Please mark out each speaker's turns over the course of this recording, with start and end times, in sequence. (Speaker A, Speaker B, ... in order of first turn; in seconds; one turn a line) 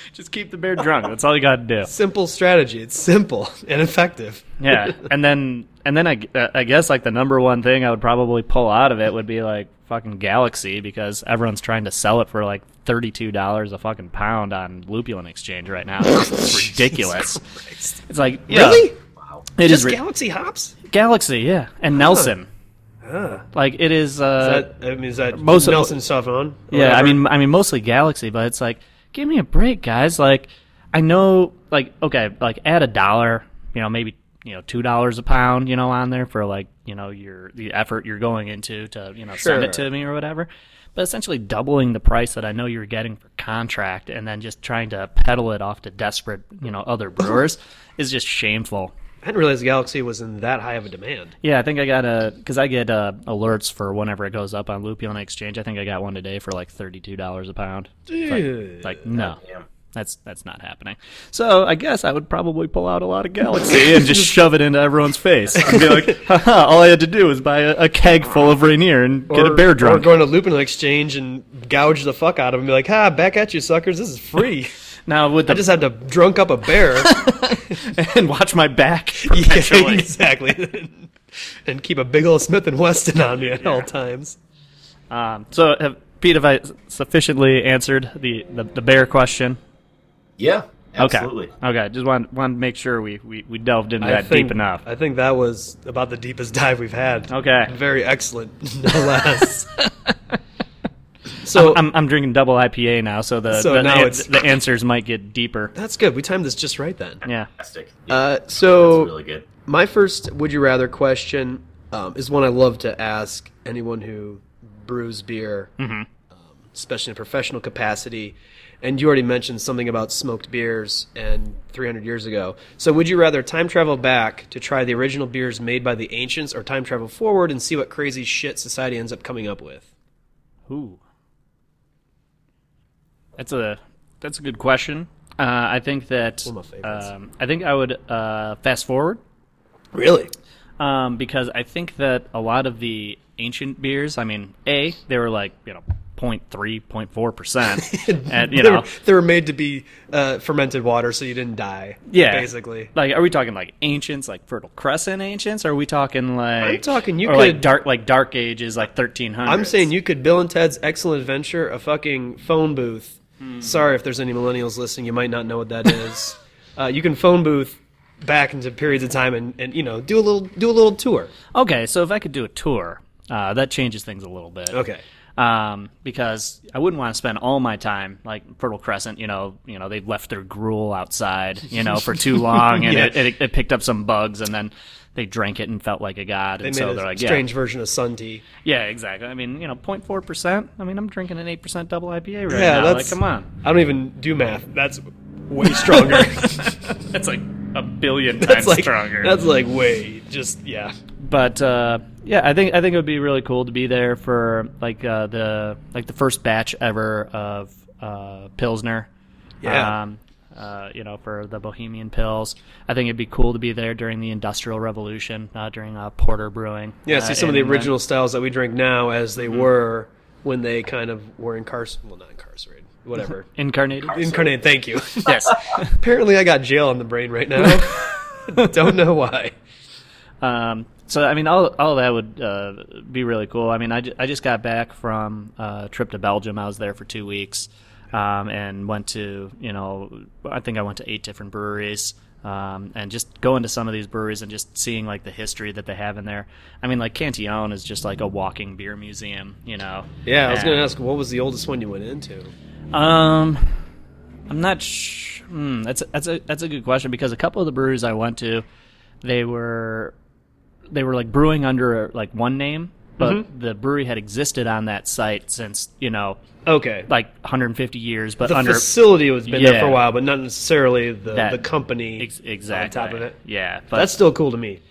Speaker A: 0.1-1.9
Speaker B: 1.9-5.0
Speaker A: 4.6-17.4
Speaker B: 16.1-18.0
Speaker A: 18.1-18.9
Speaker B: 18.5-19.0
Speaker C: 19.2-19.4
Speaker A: 19.6-20.0
Speaker B: 19.6-20.7
Speaker A: 20.9-22.5
Speaker B: 21.9-22.3
Speaker B: 23.0-23.5
Speaker A: 23.5-24.7
Speaker B: 24.4-27.2
Speaker A: 25.3-26.0
Speaker A: 26.7-48.9
Speaker B: 39.4-39.9
Speaker B: 49.2-51.3
Speaker A: 51.4-59.4
Speaker B: 58.1-59.0
Speaker C: 59.2-59.7
Speaker A: 59.9-70.1
Speaker B: 65.5-66.2
Speaker B: 69.3-74.7
Speaker A: 75.1-75.7
Speaker B: 75.5-77.2
Speaker A: 76.8-80.1
Speaker B: 79.2-84.4
Speaker A: 83.5-83.9
Speaker A: 85.1-89.6
Speaker C: 90.4-91.5
Speaker A: 91.0-94.8
Speaker B: 94.0-99.7
Speaker A: 97.3-97.7
Speaker A: 99.8-100.3
Speaker B: 101.4-101.9
Speaker A: 101.5-105.7
Speaker B: 103.5-104.4
Speaker B: 105.8-107.2
Speaker C: 107.6-109.5
Speaker B: 108.1-109.1
Speaker B: 109.7-115.7
Speaker A: 115.8-116.1
Speaker B: 116.3-129.9
Speaker A: 130.7-131.0
Speaker A: 133.4-139.2
Speaker B: 136.4-137.1
Speaker B: 139.9-140.3
Speaker A: 140.8-148.9
Speaker B: 147.8-152.9
Speaker A: 152.1-159.9
Speaker B: 156.6-157.7
Speaker B: 159.4-171.3
Speaker A: 163.4-163.8
Speaker A: 171.5-174.8
Speaker B: 174.7-175.0
Speaker A: 175.4-187.4
Speaker B: 182.4-183.2
Speaker B: 186.6-188.4
Speaker A: 188.6-193.5
Speaker B: 192.5-196.8
Speaker A: 195.8-199.4
Speaker B: 198.4-200.9
Speaker A: 201.2-209.1
Speaker B: 209.6-209.9
Speaker A: 209.6-217.9
Speaker B: 217.1-223.5
Speaker A: 223.6-224.3
Speaker B: 224.0-229.5
Speaker A: 225.2-226.0
Speaker A: 227.6-228.7
Speaker A: 230.4-250.9
Speaker B: 250.3-252.5
Speaker A: 252.9-253.7
Speaker A: 254.5-258.6
Speaker A: 259.2-260.1
Speaker A: 260.9-266.4
Speaker B: 263.2-263.4
Speaker B: 266.7-267.1
Speaker A: 267.1-268.9
Speaker B: 268.4-273.4
Speaker A: 269.5-270.1
Speaker A: 271.3-271.6
Speaker A: 272.2-274.1
Speaker B: 273.9-274.8